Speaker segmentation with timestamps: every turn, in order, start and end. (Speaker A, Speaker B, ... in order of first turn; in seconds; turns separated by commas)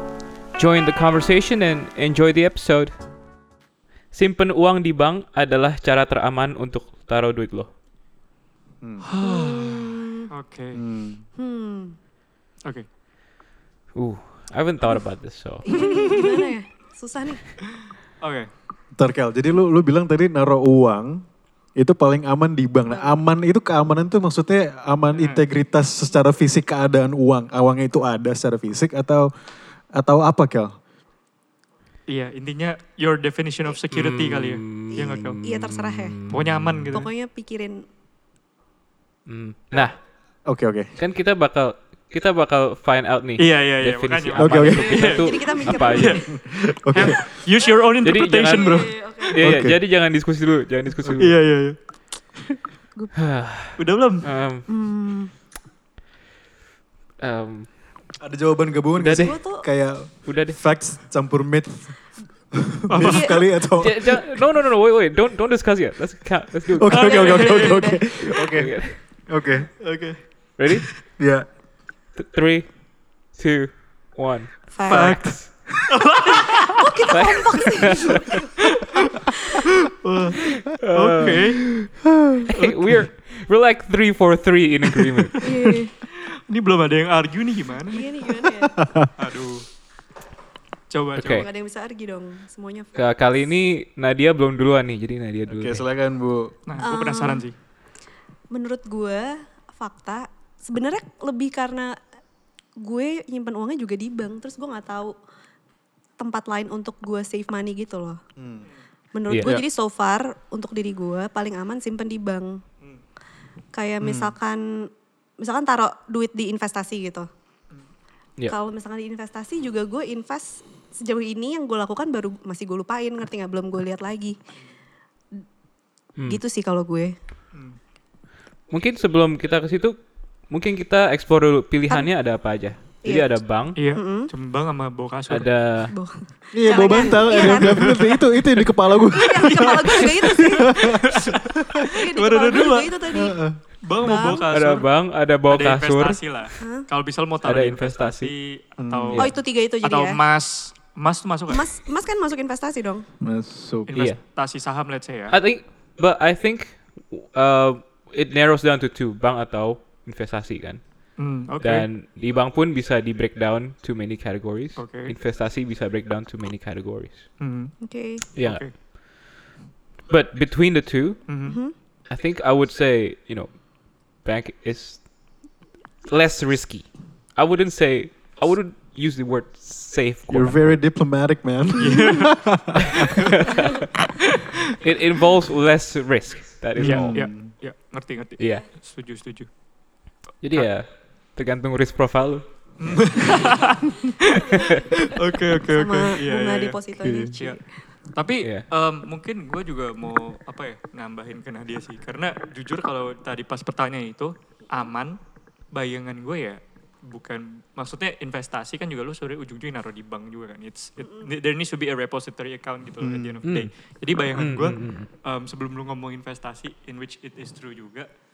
Speaker A: 0.5-3.0, Speaker A: 4.1-7.7, Speaker B: 9.0-10.8, Speaker C: 9.2-10.2, Speaker D: 10.7-11.2, Speaker C: 11.4-11.9, Speaker A: 13.9-15.7, Speaker C: 15.6-17.6, Speaker B: 15.7-16.5, Speaker B: 18.2-18.5, Speaker D: 18.9-21.2, Speaker D: 21.8-29.3, Speaker C: 22.9-23.2, Speaker B: 25.1-25.5, Speaker D: 29.9-30.7, Speaker B: 32.1-35.4, Speaker A: 33.9-36.9, Speaker C: 34.9-36.1, Speaker B: 36.3-37.1, Speaker C: 36.9-37.7, Speaker A: 39.3-40.0, Speaker D: 40.5-40.9, Speaker A: 41.0-46.2, Speaker B: 43.4-46.3, Speaker D: 44.4-45.1, Speaker C: 44.8-46.3, Speaker D: 46.3-47.3, Speaker B: 46.8-49.4, Speaker A: 48.0-51.4, Speaker C: 48.5-49.3, Speaker D: 49.4-49.8, Speaker B: 51.2-51.8, Speaker A: 53.2-54.7, Speaker B: 53.8-54.2, Speaker C: 54.7-55.3, Speaker A: 57.2-57.7, Speaker D: 58.2-62.0, Speaker A: 59.0-59.4, Speaker C: 59.2-59.6, Speaker A: 60.2-60.6, Speaker D: 62.5-64.4, Speaker B: 62.9-63.4, Speaker C: 63.0-63.4, Speaker A: 63.8-67.2, Speaker D: 66.7-69.8, Speaker B: 66.9-67.9, Speaker C: 66.9-68.0, Speaker A: 68.2-69.0, Speaker A: 70.6-70.9, Speaker D: 71.2-71.4, Speaker A: 72.2-75.3, Speaker C: 74.7-75.2, Speaker B: 74.9-76.8, Speaker C: 76.3-78.4, Speaker A: 77.1-78.3, Speaker B: 80.0-81.8, Speaker A: 80.8-81.5, Speaker A: 82.5-85.4, Speaker B: 82.5-83.0, Speaker C: 85.4-85.9, Speaker B: 86.5-88.3, Speaker C: 87.9-88.8, Speaker B: 89.1-89.7, Speaker B: 90.9-91.5, Speaker A: 91.2-91.5, Speaker C: 91.3-93.0, Speaker A: 92.9-95.8, Speaker D: 95.5-96.5, Speaker B: 96.7-97.5, Speaker C: 96.8-97.5, Speaker C: 98.5-101.9, Speaker C: 102.8-105.1, Speaker C: 106.2-108.2, Speaker D: 108.4-108.7, Speaker C: 109.1-112.6, Speaker A: 109.3-109.6, Speaker C: 113.7-114.6, Speaker D: 114.0-114.3, Speaker C: 115.4-117.2, Speaker C: 118.5-124.3, Speaker C: 126.2-127.1, Speaker A: 128.7-133.8, Speaker C: 133.0-134.3, Speaker B: 133.7-135.5, Speaker A: 135.3-135.9, Speaker C: 135.9-138.2, Speaker D: 136.5-141.8, Speaker B: 136.9-138.7, Speaker C: 139.1-140.7, Speaker B: 139.4-141.4, Speaker C: 141.9-143.4, Speaker B: 142.0-143.0, Speaker D: 143.1-143.6, Speaker B: 143.8-144.9, Speaker C: 144.0-144.5, Speaker A: 144.5-146.2, Speaker B: 145.5-151.7, Speaker C: 146.6-146.8, Speaker A: 147.4-148.3, Speaker D: 148.8-149.2, Speaker C: 149.2-150.2, Speaker C: 151.5-153.1, Speaker D: 153.2-153.9, Speaker B: 153.9-155.3, Speaker A: 155.3-161.0, Speaker B: 161.2-161.9, Speaker A: 161.6-167.3, Speaker B: 164.8-165.2, Speaker B: 167.4-167.7, Speaker C: 167.8-168.2, Speaker A: 168.3-168.9, Speaker B: 168.3-168.7, Speaker A: 170.1-171.2, Speaker B: 171.3-171.6, Speaker C: 171.5-171.7, Speaker A: 172.1-175.1, Speaker A: 176.1-180.8, Speaker D: 180.3-183.3, Speaker B: 181.8-182.4, Speaker A: 183.0-183.6, Speaker A: 184.8-187.2, Speaker D: 186.8-187.5, Speaker B: 186.8-189.5, Speaker A: 188.4-188.6, Speaker A: 190.4-192.4, Speaker B: 192.8-197.6, Speaker C: 195.7-197.6, Speaker D: 197.0-197.3, Speaker B: 198.1-205.2, Speaker B: 205.7-218.1, Speaker D: 213.0-213.4, Speaker A: 213.4-213.7, Speaker A: 214.3-215.1